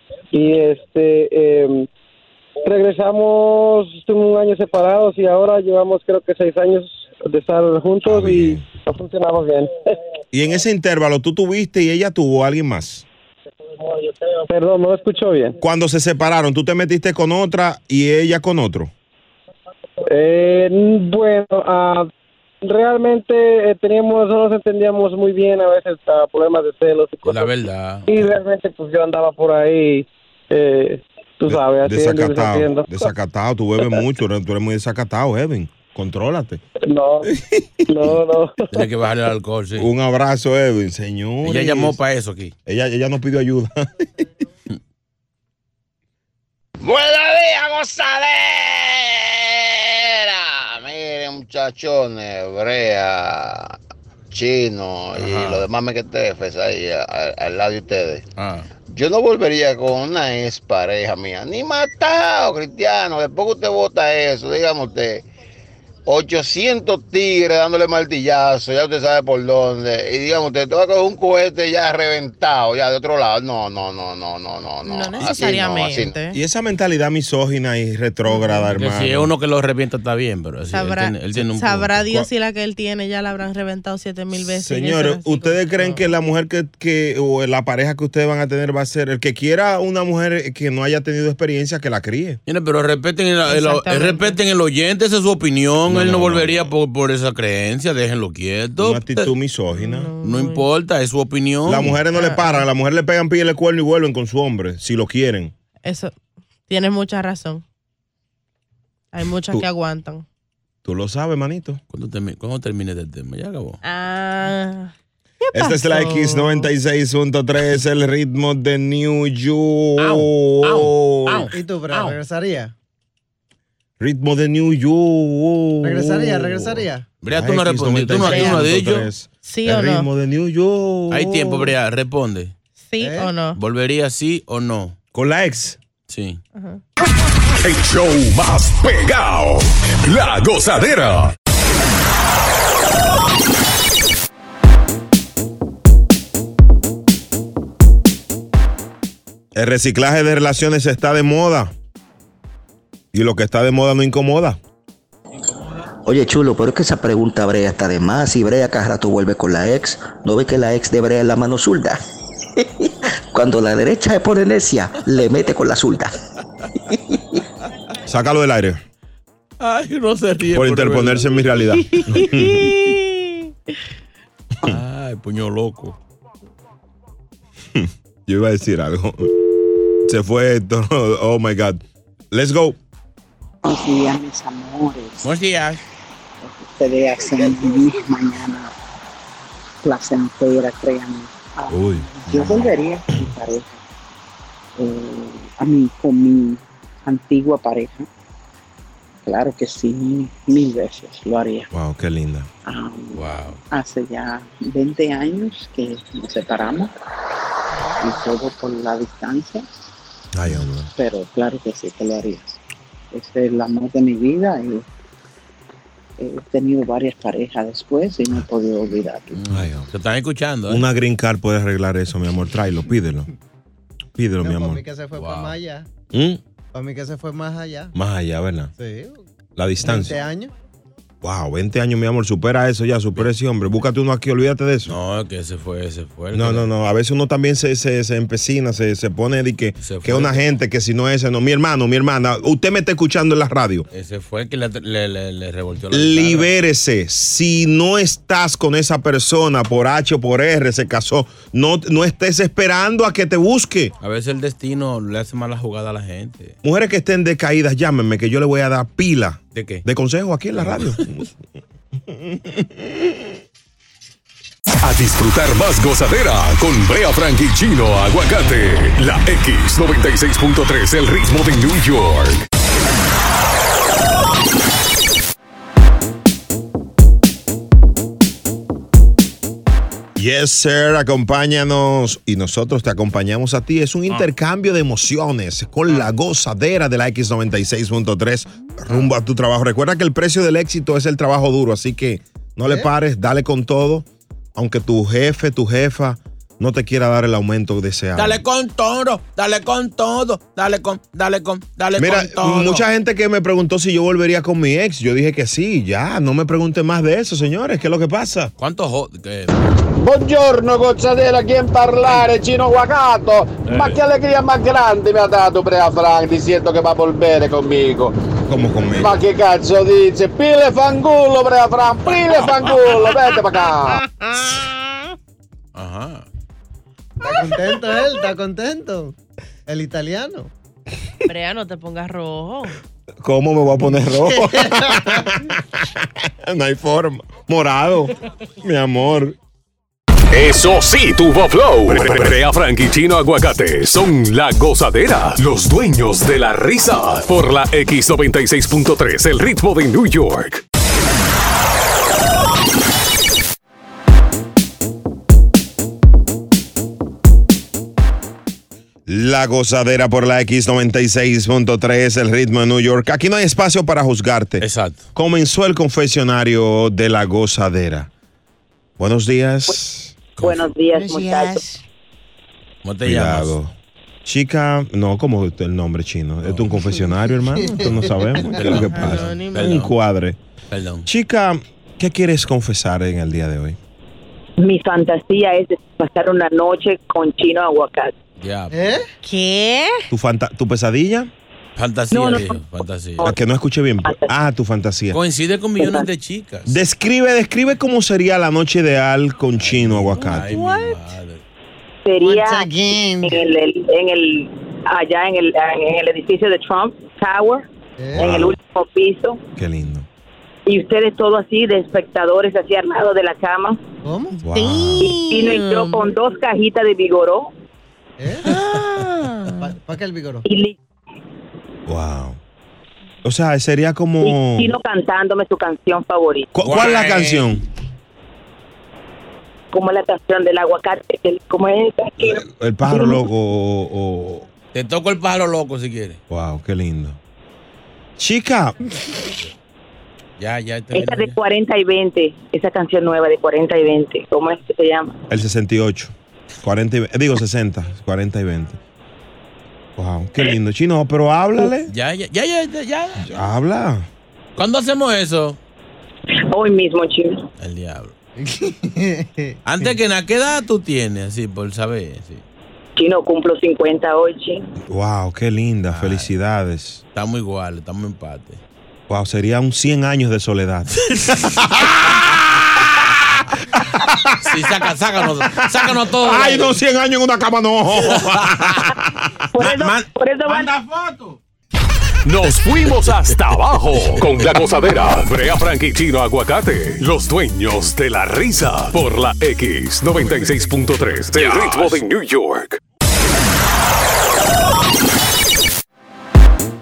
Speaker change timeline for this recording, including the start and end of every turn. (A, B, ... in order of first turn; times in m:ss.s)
0:00.3-0:01.9 A
0:02.6-0:09.9 A
0:08.1-0:08.7 B
0:10.3-0:13.0 B
0:14.5-0:15.6 A
0:15.6-0:18.9 B
0:20.1-0:22.1 A
0:22.6-0:27.5 A
0:27.2-0:28.1 C
0:28.1-0:33.1 A
0:31.5-0:36.6 B
0:36.9-0:37.3 A
0:37.3-0:37.7 B
0:37.9-0:38.7 A
0:38.7-0:39.9 C
0:39.8-0:42.0 B
0:41.4-0:42.5 C
0:42.7-0:44.1 B
0:46.8-0:53.8 D
0:54.3-0:58.3 D
0:55.2-0:55.6 C
0:58.4-0:58.7 C
0:58.9-1:05.2 D
1:06.1-1:16.1 D
1:14.8-1:16.4 E
1:16.3-1:19.3 B
1:18.3-1:18.7 E
1:18.8-1:22.0 C
1:20.7-1:26.1 E
1:24.4-1:32.4 B
1:32.5-1:39.3 C
1:33.5-1:34.4 E
1:35.8-1:36.7 B
1:38.8-1:40.1 B
1:39.8-1:40.7 E
1:40.2-1:42.0 C
1:41.7-1:45.5 B
1:42.1-1:42.6 E
1:45.8-1:46.1 E
1:46.7-1:47.6 E
1:49.1-1:50.2 E
1:50.8-1:51.8 B
1:51.9-1:53.8 C
1:53.8-1:56.7 E
1:55.5-2:01.5 B
2:00.0-2:02.1 C
2:01.5-2:02.7 F
2:04.0-2:11.7 B
2:05.8-2:07.1 F
2:07.2-2:09.1 C
2:08.1-2:08.6 E
2:09.4-2:10.1 E
2:11.1-2:12.5 C
2:12.8-2:13.6 E
2:13.0-2:13.3 F
2:13.6-2:15.0 C
2:15.1-2:15.8 B
2:16.1-2:16.4 C
2:16.6-2:16.8 E
2:17.6-2:21.3 G
2:29.6-2:31.7 B
2:33.1-2:34.6 B
2:36.1-2:42.0 H
2:42.6-2:46.1 H
2:48.1-2:48.8 B
2:49.6-2:51.5 C
2:50.5-2:52.8 B
2:51.9-2:53.5 E
2:54.6-2:56.0 C
2:57.7-2:59.3 B
3:00.0-3:02.8 B
3:03.6-3:05.3 I
3:05.2-3:05.8 C
3:06.4-3:08.7 I
3:09.8-3:13.8 I
3:11.7-3:12.7 B
3:14.8-3:18.1 I
3:19.3-3:21.7 I
3:21.7-3:22.5 B
3:22.6-3:26.9 I
3:23.1-3:23.6 C
3:28.0-3:29.7 I
3:30.3-3:30.9 B
3:31.0-3:32.6 I
3:33.1-3:34.8 I
3:36.2-3:39.4 I
3:39.3-3:40.8 C
3:39.5-3:39.9 B
3:40.7-3:43.3 B
3:44.2-3:44.8 B
3:44.4-3:45.9 F
3:45.2-3:45.6 C
3:46.1-3:46.4 B
3:46.7-3:47.9 F
3:47.9-3:48.7 B
3:48.8-3:49.3 F
3:49.6-3:50.2 B
3:49.8-3:50.5 F
3:51.2-3:55.0 B
3:54.9-3:56.7 C
3:56.3-4:03.9 B
3:59.8-4:00.5 C
4:03.9-4:06.5 C
4:05.9-4:13.9 B
4:14.0-4:16.6 C
4:16.6-4:21.3 B
4:19.5-4:19.8 C
4:20.6-4:21.0 C
4:22.1-4:23.1 B
4:24.8-4:32.4 G
4:40.2-4:58.4 B
4:52.6-4:52.9 F
4:58.2-5:02.8 C
5:02.0-5:08.5 B
5:08.6-5:09.6 C
5:10.0-5:18.2 J
5:13.7-5:14.0 C
5:18.5-5:19.2 B
5:19.0-5:24.0 J
5:25.8-5:26.3 C
5:27.2-5:29.2 F
5:29.7-5:30.5 F
5:31.3-5:32.8 E
5:33.2-5:39.4 B
5:34.1-5:35.3 F
5:40.3-5:50.6 G
5:59.1-6:08.1 B
6:04.6-6:05.1 C
6:09.0-6:10.1 B
6:10.4-6:10.7 C
6:10.4-6:11.7 K
6:11.0-6:11.6 F
6:12.8-6:13.6 C
6:13.0-6:13.7 B
6:14.2-6:20.4 B
6:16.4-6:16.7 C
6:17.6-6:18.5 F
6:18.4-6:19.9 C
6:18.8-6:19.6 E
6:20.7-6:21.1 C
6:21.1-6:23.8 B
6:24.6-6:28.1 K
6:28.4-6:28.8 C
6:28.7-6:29.1 F
6:29.2-6:30.0 E
6:30.1-6:31.3 B
6:31.8-6:33.3 C
6:32.1-6:32.6 K
6:33.2-6:35.2 B
6:34.0-6:34.3 K
6:35.1-6:36.8 C
6:35.8-6:36.1 K
6:36.7-6:40.5 B
6:39.6-6:41.4 C
6:40.7-6:40.9 F
6:42.0-6:49.4 K
6:42.2-6:43.4 F
6:48.0-6:48.4 F
6:48.2-6:48.6 B
6:49.6-6:50.1 B
6:50.7-6:53.8 K
6:54.0-6:54.4 F
6:54.4-6:55.2 B
6:54.5-6:56.1 E
6:55.1-6:57.5 K
6:58.2-7:00.4 F
6:58.4-6:59.7 E
7:00.4-7:00.8 K
7:01.9-7:02.4 B
7:03.2-7:04.7 B
7:04.2-7:06.5 K
7:06.5-7:07.6 B
7:06.6-7:07.6 C
7:09.7-7:13.2 K
7:12.2-7:14.5 B
7:14.7-7:16.2 C
7:16.3-7:17.2 B
7:18.2-7:18.8 B
7:20.4-7:21.4 C
7:20.9-7:25.2 K
7:25.3-7:28.8 B
7:30.0-7:31.9 B
7:31.9-7:33.3 C
7:33.2-7:34.1 B
7:34.6-7:35.6 C
7:36.5-7:37.4 K
7:37.6-7:38.1 C
7:38.4-7:39.9 F
7:39.6-7:42.4 C
7:43.0-7:44.7 K
7:44.9-7:47.0 B
7:45.9-7:46.3 C
7:47.1-7:48.6 C
7:49.1-7:53.2 B
7:51.2-7:51.6 C
7:53.7-7:54.4 B
7:54.4-7:56.7 C
7:55.5-7:59.4 B
7:58.1-7:58.9 C
7:59.5-8:00.8 K
7:59.6-8:00.1 C
8:02.2-8:12.8 G
8:11.4-8:12.0 C